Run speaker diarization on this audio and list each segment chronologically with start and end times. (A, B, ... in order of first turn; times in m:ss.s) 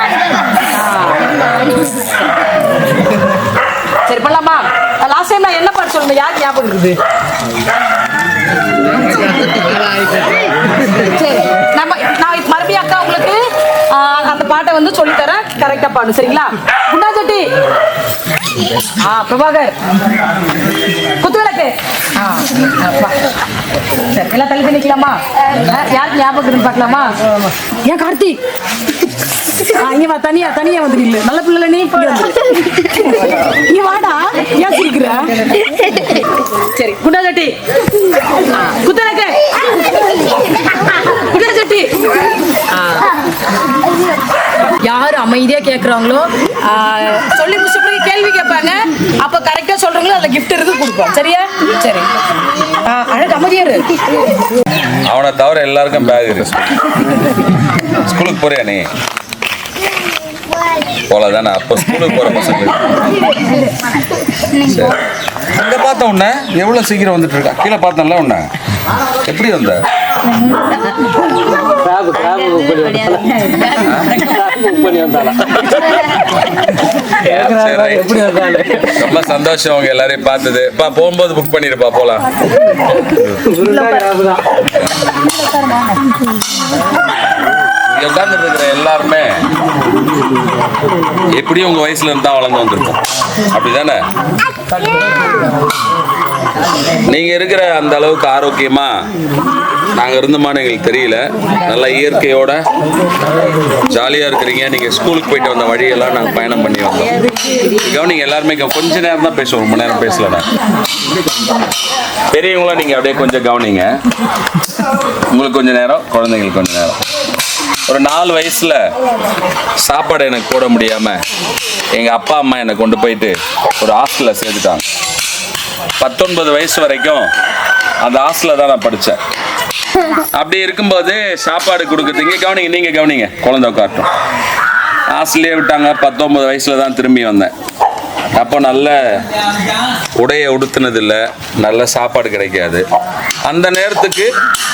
0:00.7-0:01.4 A
0:04.0-0:07.0 A
0:10.9-0:17.5 A
0:19.0-0:19.8 A
0:21.1-0:23.2 A
0:24.0-0:28.4 A
0:29.6-0:37.6 A
0:38.6-0:39.4 A
0:41.1-0:42.1 A
0:42.7-0:43.1 A
0:44.8-0:52.1 A
0:52.8-0:54.0 A
0:55.0-0:56.9 B
0:57.9-0:58.9 B
1:01.1-1:03.0 B
1:04.5-1:08.5 B
1:09.2-1:09.8 B
1:11.8-1:13.4 C
1:13.8-1:14.2 B
1:14.2-1:15.6 C
1:17.2-1:22.3 B
1:17.4-1:18.8 C
1:23.6-1:24.4 C
1:25.4-1:25.9 A
1:27.9-1:29.4 B
1:31.3-1:34.0 B
1:37.1-1:39.0 B
1:39.9-1:42.6 B
1:43.8-1:47.2 B
1:47.8-1:50.5 B
1:52.3-1:53.9 B
1:55.3-1:57.0 B
1:57.9-1:58.8 B
1:59.8-2:01.2 B
2:01.9-2:04.8 B
2:06.0-2:07.3 B
2:08.0-2:09.2 B
2:10.3-2:14.1 B
2:15.1-2:17.5 B
2:18.3-2:19.0 B
2:20.1-2:22.8 B
2:23.4-2:24.3 B